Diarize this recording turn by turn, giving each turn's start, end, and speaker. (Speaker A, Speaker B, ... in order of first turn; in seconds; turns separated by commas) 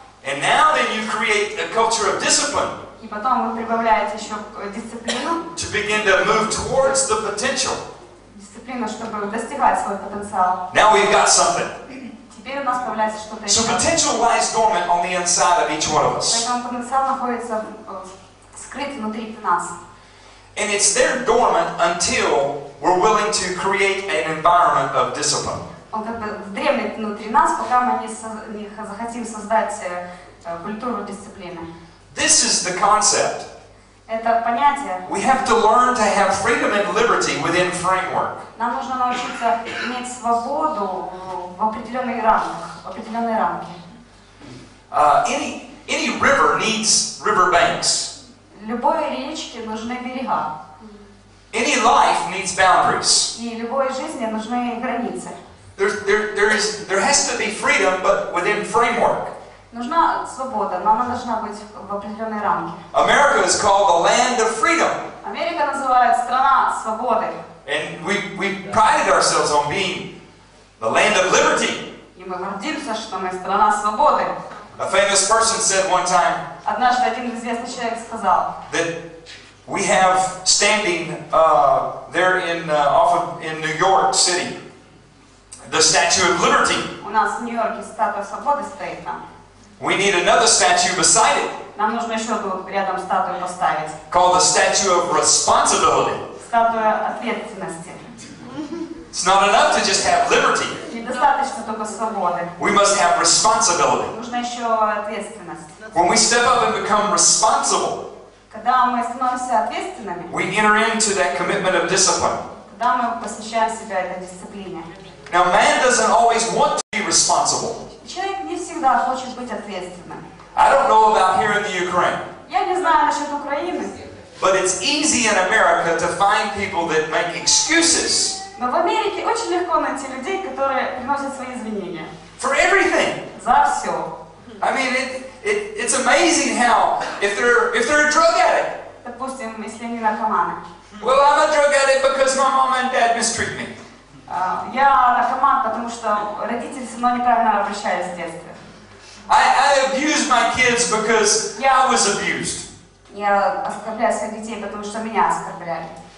Speaker A: 0.2-2.8, Speaker B: 3.0-5.4, Speaker A: 5.5-7.8, Speaker B: 8.3-10.6, Speaker A: 10.7-11.8, Speaker B: 12.3-13.8, Speaker A: 13.4-16.4, Speaker B: 16.2-19.8, Speaker A: 20.5-25.7, Speaker B: 25.9-31.7, Speaker A: 32.1-33.5, Speaker B: 34.1-35.0, Speaker A: 35.0-38.4, Speaker B: 38.5-43.8, Speaker A: 44.9-48.1, Speaker B: 48.5-50.5, Speaker A: 51.5-53.3, Speaker B: 53.3-55.4, Speaker A: 55.8-59.3, Speaker B: 59.7-62.8, Speaker A: 62.9-65.0, Speaker B: 65.2-67.4, Speaker A: 67.6-70.1, Speaker A: 70.8-71.8, Speaker B: 72.1-74.3, Speaker A: 74.8-76.4, Speaker B: 76.6-78.5, Speaker A: 78.7-79.0, Speaker A: 79.7-84.6, Speaker A: 85.7-86.9, Speaker B: 87.0-89.2, Speaker A: 89.8-91.5, Speaker B: 91.7-94.0, Speaker A: 94.1-96.2, Speaker B: 96.4-98.0, Speaker A: 99.1-100.8, Speaker B: 100.8-102.5, Speaker A: 102.6-104.1, Speaker B: 104.1-105.7, Speaker A: 105.9-108.0, Speaker B: 108.5-110.3, Speaker A: 110.3-112.4, Speaker B: 112.7-114.9, Speaker A: 115.3-117.8, Speaker B: 118.0-120.2, Speaker A: 120.5-122.2, Speaker B: 122.5-124.1, Speaker A: 124.4-128.3, Speaker B: 128.5-132.1, Speaker A: 132.4-133.2, Speaker B: 133.3-134.1, Speaker A: 134.6-138.7, Speaker B: 139.0-140.6, Speaker A: 141.0-143.7, Speaker B: 144.3-148.6, Speaker A: 149.3-152.7, Speaker B: 153.1-155.9